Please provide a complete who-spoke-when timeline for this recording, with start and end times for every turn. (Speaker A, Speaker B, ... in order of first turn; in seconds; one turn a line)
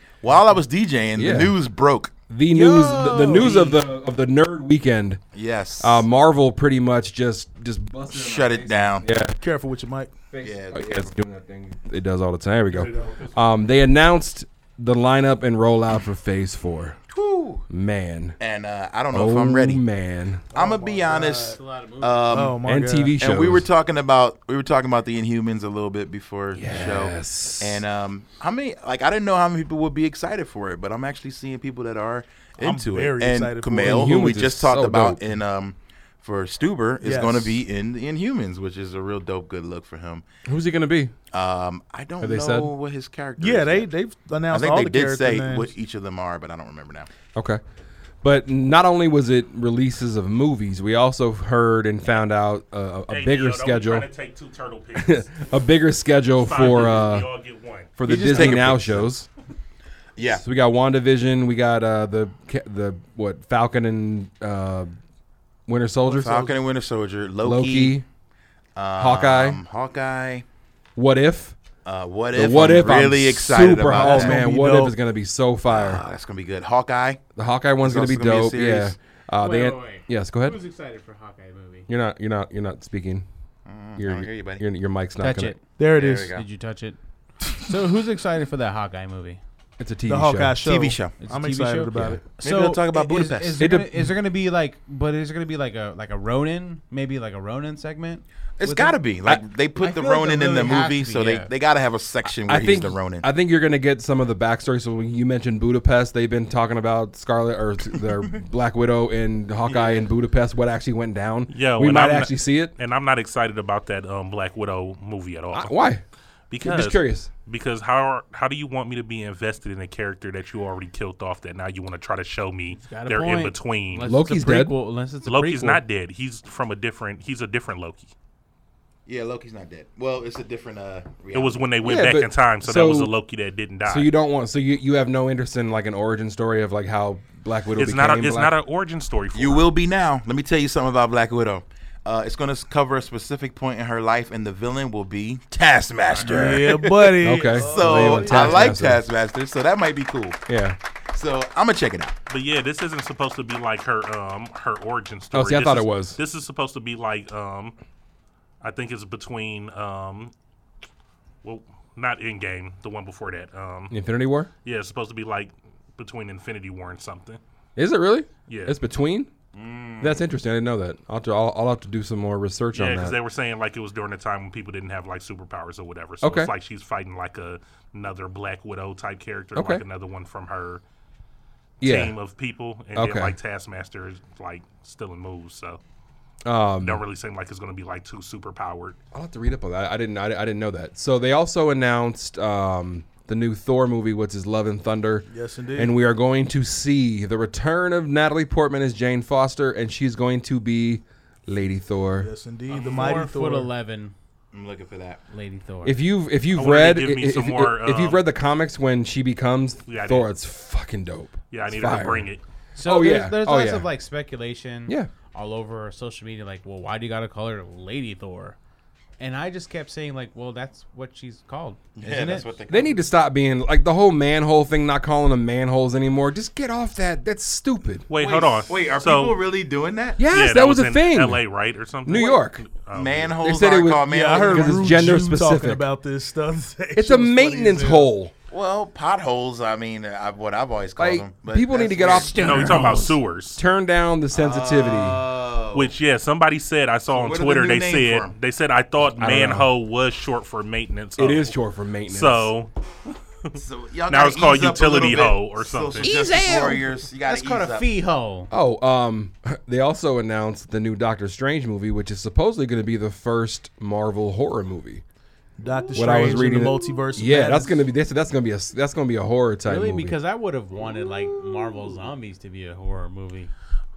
Speaker A: 0.2-2.1
Speaker B: 1.1-1.6
Speaker B: 2.3-5.2
Speaker A: 3.3-3.8
Speaker A: 5.3-6.0
Speaker B: 5.8-9.4
Speaker A: 8.1-9.1
Speaker C: 9.4-10.1
Speaker B: 10.3-17.0
Speaker A: 10.4-11.1
Speaker D: 12.7-13.3
Speaker A: 17.1-17.6
Speaker B: 17.7-18.4
Speaker A: 18.4-19.8
Speaker B: 19.1-20.4
Speaker C: 20.5-21.6
Speaker A: 20.5-22.5
Speaker E: 21.4-22.5
Speaker C: 22.3-23.1
Speaker B: 22.6-23.6
Speaker A: 23.1-40.2
Speaker B: 26.6-27.8
Speaker C: 32.6-34.0
Speaker B: 33.8-35.3
Speaker C: 37.0-37.5
Speaker B: 40.5-41.1
Speaker A: 41.3-43.9
Speaker B: 42.2-42.7
Speaker C: 43.4-45.6
Speaker A: 44.5-47.1
Speaker B: 47.3-47.6
Speaker B: 48.2-54.1
Speaker D: 53.1-55.3
Speaker B: 54.9-57.3
Speaker D: 56.4-57.9
Speaker B: 58.0-59.3
Speaker A: 58.0-59.1
Speaker A: 60.2-60.4
Speaker B: 60.3-64.9
Speaker B: 65.7-66.5
Speaker A: 66.1-68.0
Speaker B: 67.4-68.0
Speaker A: 68.8-70.4
Speaker B: 69.0-69.6
Speaker B: 71.0-71.5
Speaker A: 71.8-74.4
Speaker B: 72.3-76.0
Speaker C: 73.9-74.9
Speaker A: 75.7-77.2
Speaker B: 77.3-80.6
Speaker A: 77.8-78.9
Speaker E: 79.4-81.9
Speaker B: 81.9-83.2
Speaker A: 83.7-84.6
Speaker B: 84.0-85.5
Speaker E: 85.2-85.6
Speaker C: 85.8-86.2
Speaker A: 85.9-86.4
Speaker E: 86.2-87.0
Speaker E: 87.6-89.4
Speaker B: 89.8-90.7
Speaker C: 90.1-92.2
Speaker A: 90.6-91.2
Speaker E: 91.2-99.0
Speaker A: 92.3-93.6
Speaker B: 93.6-94.1
Speaker A: 98.6-103.3
Speaker E: 99.8-101.5
Speaker B: 102.4-112.7
Speaker A: 109.7-110.1
Speaker D: 111.5-115.8
Speaker B: 115.5-116.0
Speaker D: 116.5-124.1
Speaker B: 116.6-117.3
Speaker E: 122.7-125.8
Speaker B: 124.0-124.8
Speaker D: 125.2-128.1
Speaker A: 129.1-131.7
Speaker D: 131.3-134.1
Speaker B: 131.8-133.1
Speaker B: 133.8-138.6
Speaker D: 137.7-139.7
Speaker A: 139.3-150.4
Speaker D: 146.1-146.4
Speaker C: 146.3-148.7
Speaker B: 147.2-149.0
Speaker B: 150.5-150.8
Speaker A: 151.1-152.2
Speaker D: 152.3-157.8
Speaker B: 155.3-156.2
Speaker D: 158.6-160.3
Speaker D: 161.4-163.9
Speaker B: 163.9-164.5
Speaker D: 164.6-167.4
Speaker B: 167.8-169.3
Speaker D: 168.5-168.7
Speaker A: 169.5-170.2
Speaker B: 170.0-173.2
Speaker D: 172.7-180.8
Speaker B: 176.2-176.5
Speaker B: 179.5-179.8
Speaker B: 181.8-182.2
Speaker D: 181.8-185.8
Speaker B: 182.9-183.4
Speaker B: 186.4-187.0
Speaker D: 186.8-189.0
Speaker B: 189.1-202.3
Speaker C: 195.3-195.9
Speaker C: 202.2-203.7
Speaker D: 202.7-203.1
Speaker E: 202.9-204.1
Speaker A: 204.5-205.2
Speaker E: 205.3-206.0
Speaker B: 205.8-212.3
Speaker D: 206.5-208.2
Speaker D: 209.8-210.3
Speaker D: 211.5-212.4
Speaker E: 212.7-218.6
Speaker B: 212.8-213.9
Speaker E: 219.2-222.5
Speaker A: 221.9-223.0
Speaker B: 222.7-228.1
Speaker D: 228.1-229.4
Speaker A: 228.2-230.2
Speaker B: 230.2-231.4
Speaker D: 230.3-233.4
Speaker B: 232.0-232.7
Speaker A: 232.9-234.7
Speaker B: 233.4-235.8
Speaker C: 234.1-238.1
Speaker B: 236.9-238.3
Speaker A: 238.5-242.8
Speaker B: 241.0-243.0
Speaker E: 242.2-243.2
Speaker D: 242.4-243.6
Speaker B: 243.6-245.2
Speaker A: 244.3-245.9
Speaker D: 245.7-251.6
Speaker A: 247.1-248.3
Speaker B: 249.2-249.7
Speaker B: 251.2-252.5
Speaker D: 252.1-252.7
Speaker D: 253.4-256.2
Speaker A: 253.6-257.9
Speaker B: 256.0-256.8
Speaker E: 256.1-258.5
Speaker B: 258.5-265.0
Speaker C: 265.6-267.8
Speaker A: 265.6-266.9
Speaker B: 265.9-270.2
Speaker E: 269.6-273.5